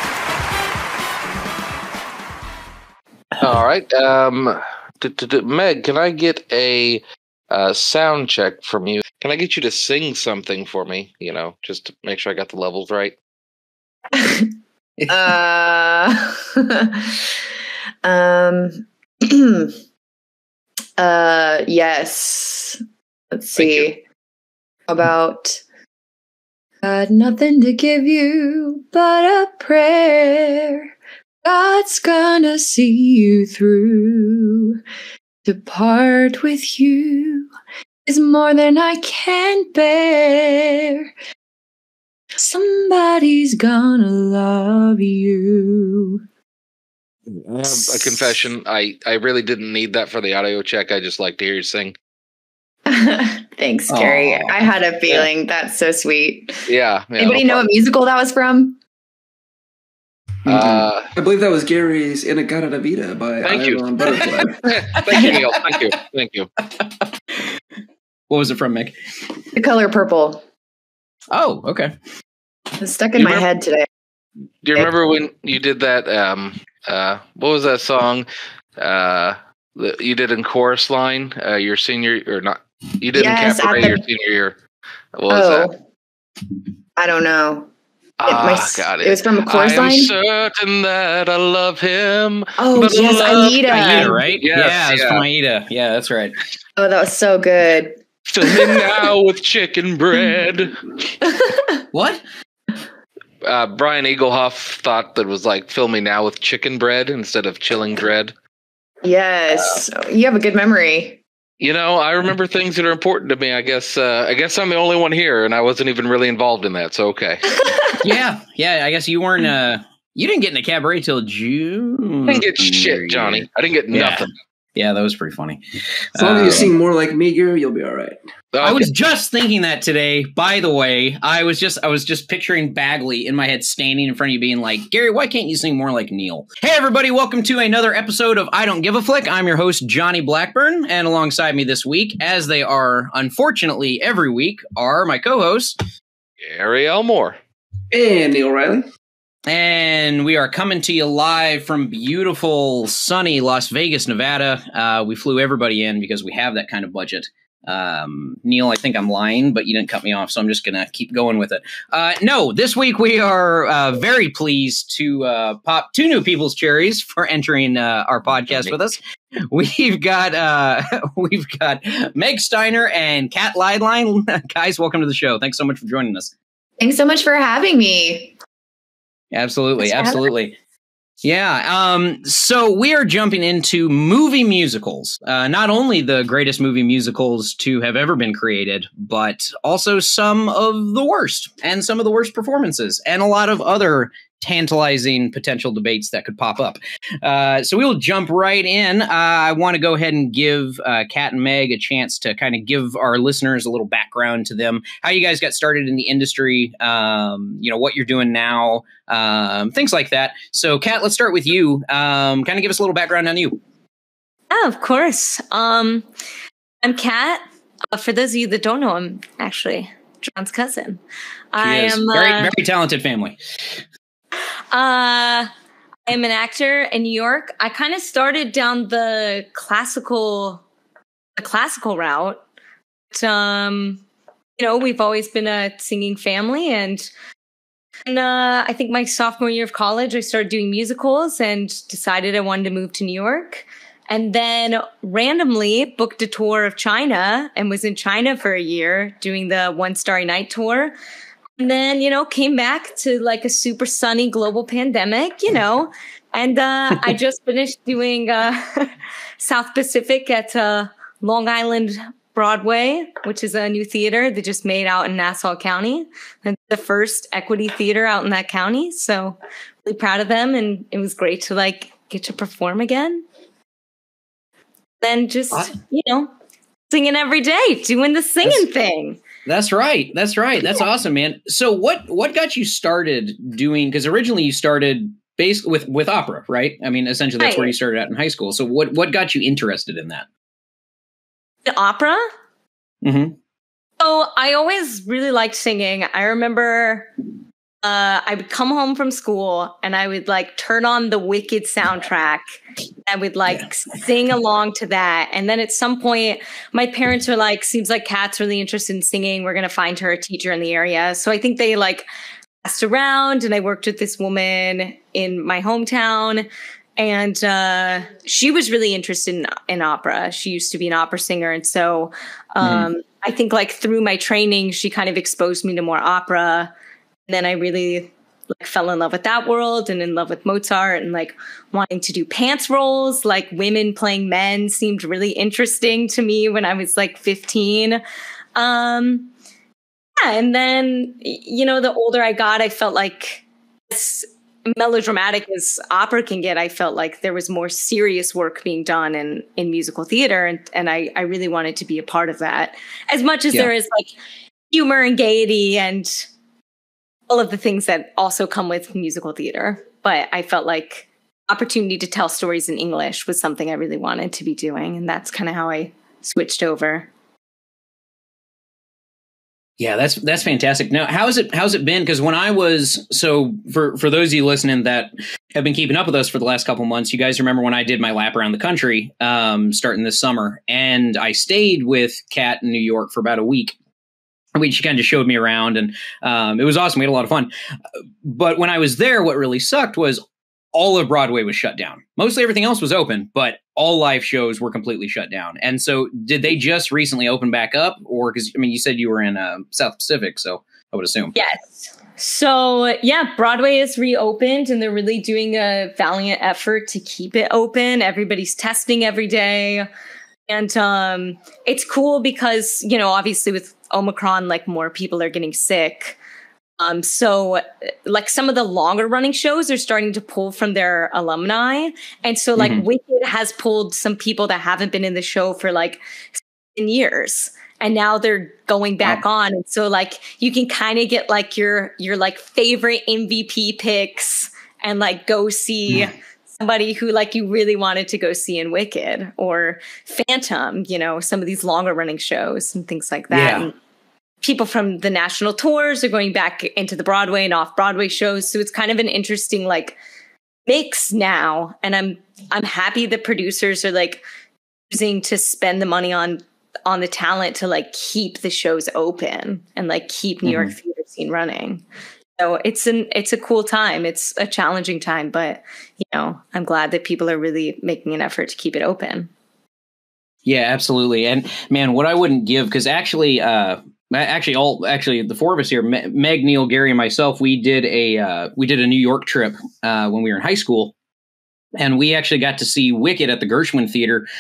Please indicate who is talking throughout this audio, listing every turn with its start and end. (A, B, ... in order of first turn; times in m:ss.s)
0:03.4-0:13.2 A
0:14.1-0:14.5 B
0:15.0-0:15.4 C
0:15.1-0:17.3 B
0:18.0-0:19.7 B
0:21.0-0:22.8 B
0:23.3-0:24.0 B
0:23.6-0:23.9 A
0:24.9-0:25.6 B
0:26.8-0:30.9 B
0:31.4-0:34.8 B
0:35.4-0:37.5 B
0:38.1-0:41.1 B
0:42.4-0:46.2 B
0:47.3-0:52.0 A
0:47.7-0:48.5 B
0:52.9-0:56.6 B
0:53.9-0:55.2 C
0:56.7-0:57.7 A
0:57.2-0:58.8 B
1:00.4-1:04.7 D
1:00.5-1:01.1 A
1:03.4-1:03.8 A
1:04.0-1:05.9 C
1:04.6-1:06.5 A
1:05.1-1:05.4 B
1:06.7-1:07.6 C
1:08.3-1:09.0 C
1:09.5-1:10.4 B
1:11.3-1:11.9 C
1:12.8-1:13.9 B
1:13.2-1:13.5 A
1:14.6-1:18.3 A
1:18.8-1:24.6 A
1:23.1-1:24.0 B
1:25.2-1:25.7 A
1:25.3-1:25.8 B
1:27.0-1:27.7 B
1:28.2-1:35.2 A
1:28.3-1:30.1 B
1:32.6-1:34.2 B
1:33.7-1:36.4 C
1:36.8-1:39.1 B
1:38.3-1:40.8 A
1:41.2-1:41.8 B
1:41.9-1:42.2 C
1:43.4-1:48.3 A
1:49.0-1:51.2 B
1:49.6-1:49.8 A
1:51.6-1:57.6 A
1:57.6-1:58.0 B
1:58.0-2:05.6 C
2:02.3-2:04.3 A
2:06.2-2:06.7 C
2:06.2-2:08.2 D
2:08.5-2:08.9 A
2:08.6-2:25.8 C
2:26.4-2:27.4 A
2:27.9-2:28.8 D
2:29.5-2:56.3 C
2:56.8-2:58.4 B
2:59.3-3:00.6 C
2:59.8-3:00.3 B
3:01.2-3:33.6 C
3:34.5-3:36.1 E
3:36.8-3:41.0 E
3:41.5-3:42.5 E
3:41.6-3:43.4 C
3:44.7-3:45.5 E
3:46.1-3:50.6 E
3:51.4-3:52.4 E
3:53.1-3:54.0 E
3:54.6-3:57.1 E
3:58.1-4:11.0 E
4:11.6-4:33.2 E
4:35.0-4:36.3 E
4:36.9-4:39.2 E
4:39.5-4:50.3 C
4:47.4-4:47.7 E
4:51.7-4:52.3 E
4:53.0-4:53.4 C
4:54.0-4:57.1 E
4:57.8-5:02.4 E
5:03.1-5:12.1 E
5:12.6-5:26.7 E
5:22.6-5:22.9 C
5:27.3-5:38.0 E
5:38.6-5:39.3 E
5:40.2-5:54.1 E
5:54.7-5:56.3 E
5:57.3-6:07.1 E
6:09.8-6:23.8 C
6:24.6-6:27.5 C
6:28.2-6:30.2 C
6:30.7-6:41.3 C
6:41.4-6:49.9 E
6:50.5-6:56.2 E
6:56.8-7:23.8 E
7:02.6-7:02.8 C
7:23.3-7:23.7 C
7:24.4-7:30.0 E
7:30.7-7:34.2 E
7:34.9-7:41.8 E
7:40.5-7:40.7 C
7:42.4-7:49.3 E
7:50.5-8:00.9 C
8:01.8-8:04.3 C